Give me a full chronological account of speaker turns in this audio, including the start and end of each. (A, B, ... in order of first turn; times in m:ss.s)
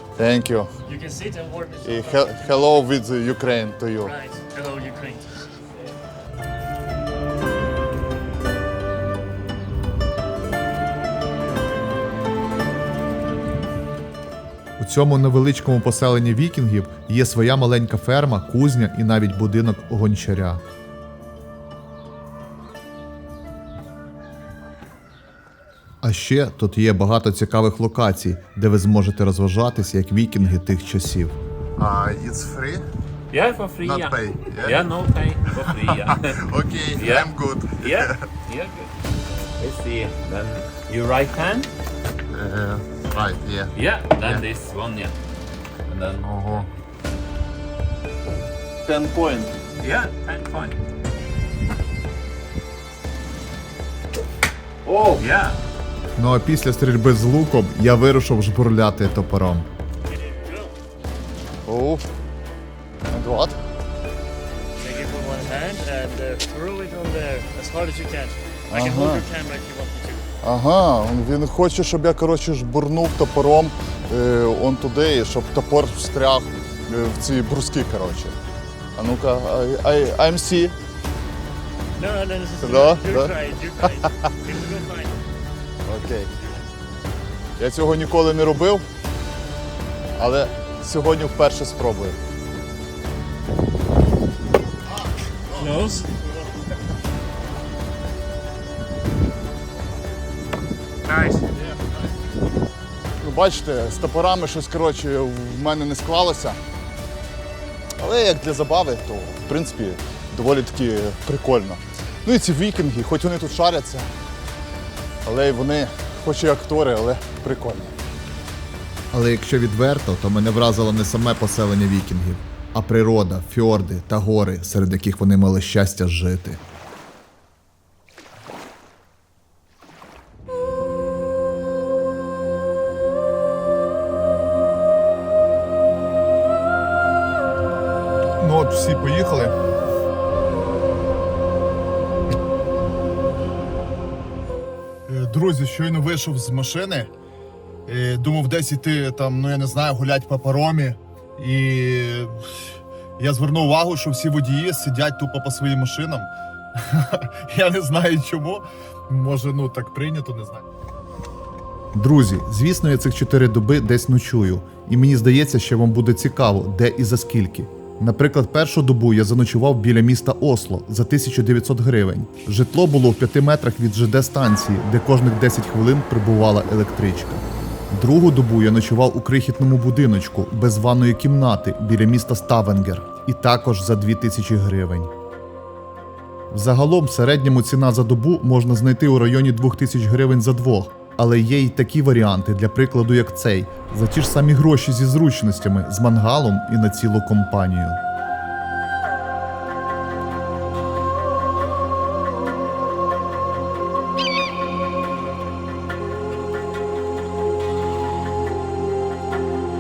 0:00.2-0:00.7 A
0:00.9-0:02.9 B
0:01.8-0:04.1 A
0:04.0-0:05.4 B
0:14.8-0:20.6 C
0:26.0-0:31.4 C
0:31.8-0:32.8 A
0:33.3-0:39.0 D
0:33.8-0:34.8 A
0:35.6-0:38.2 A
0:39.6-0:41.7 D
0:42.3-0:44.4 A
0:43.7-0:45.2 D
0:45.9-0:46.7 D
0:46.2-0:46.6 A
0:48.8-0:50.8 D
0:54.8-0:55.6 D
0:56.2-0:59.7 C
1:00.1-1:00.7 B
1:01.6-1:02.0 A
1:03.1-1:03.6 A
1:04.8-1:10.2 B
1:08.7-1:09.2 A
1:10.4-1:18.4 A
1:19.0-1:20.8 A
1:22.0-1:25.2 B
1:22.6-1:23.3 A
1:25.8-1:26.3 A
1:27.6-1:28.8 A
1:30.2-1:32.2 A
1:35.5-1:36.1 B
1:41.0-1:41.6 B
1:43.2-1:46.6 A
1:48.0-1:54.1 A
1:55.2-1:58.0 A
1:59.1-2:06.6 C
2:18.4-2:19.5 A
2:25.1-2:27.1 A
2:27.9-2:40.6 A
2:42.0-3:05.1 C
3:06.5-3:18.0 C